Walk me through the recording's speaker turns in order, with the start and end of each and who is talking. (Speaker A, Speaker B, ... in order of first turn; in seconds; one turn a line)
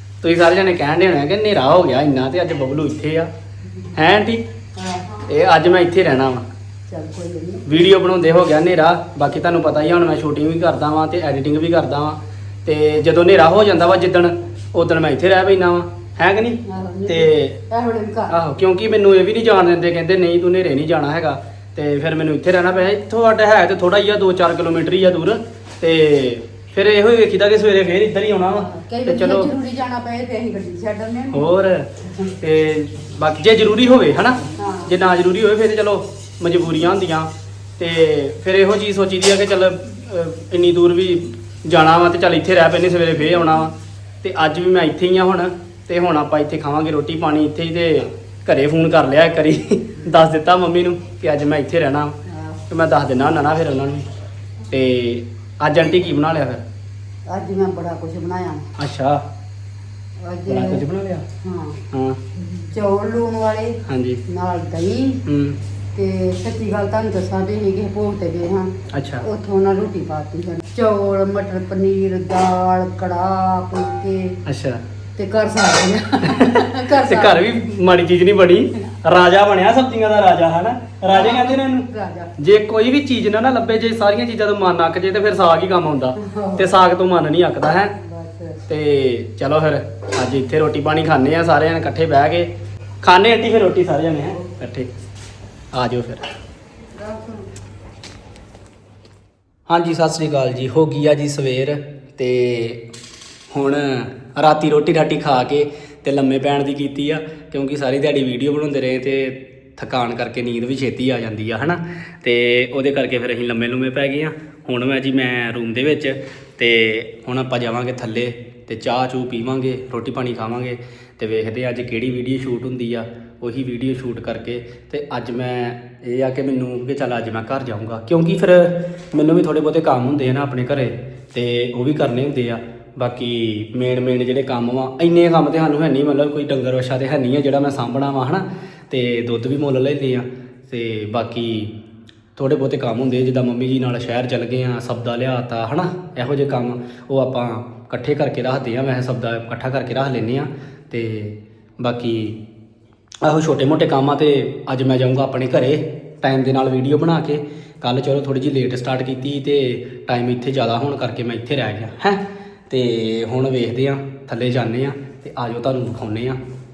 Speaker A: 0.2-3.3
Speaker A: 3.9-4.4
Speaker B: 4.8-5.3
Speaker A: 5.2-6.5
Speaker B: 6.9-7.8
Speaker A: 7.7-17.6
Speaker B: 16.6-18.4
Speaker A: 18.3-29.5
Speaker B: 28.5-31.5
Speaker A: 31.3-31.9
Speaker A: 32.4-52.2
Speaker B: 34.5-34.9
Speaker B: 52.3-52.6
Speaker A: 52.7-54.1
Speaker A: 54.7-56.6
Speaker B: 57.3-58.6
Speaker A: 58.8-59.2
Speaker B: 60.2-60.8
Speaker A: 60.5-61.2
Speaker B: 61.4-61.8
Speaker A: 61.9-62.2
Speaker B: 62.4-65.2
Speaker A: 63.9-64.2
Speaker A: 65.2-65.6
Speaker B: 65.9-68.7
Speaker A: 68.9-69.2
Speaker B: 69.2-74.4
Speaker A: 74.5-74.8
Speaker B: 75.2-77.5
Speaker A: 76.2-87.9
Speaker B: 81.1-82.3
Speaker B: 86.2-86.8
Speaker B: 88.0-88.6
Speaker A: 88.7-92.5
Speaker A: 93.0-94.9
Speaker A: 95.7-96.2
Speaker B: 96.9-97.5
Speaker A: 99.7-102.9
Speaker A: 103.5-141.7
Speaker A: 142.3-152.4
Speaker A: 153.2-166.4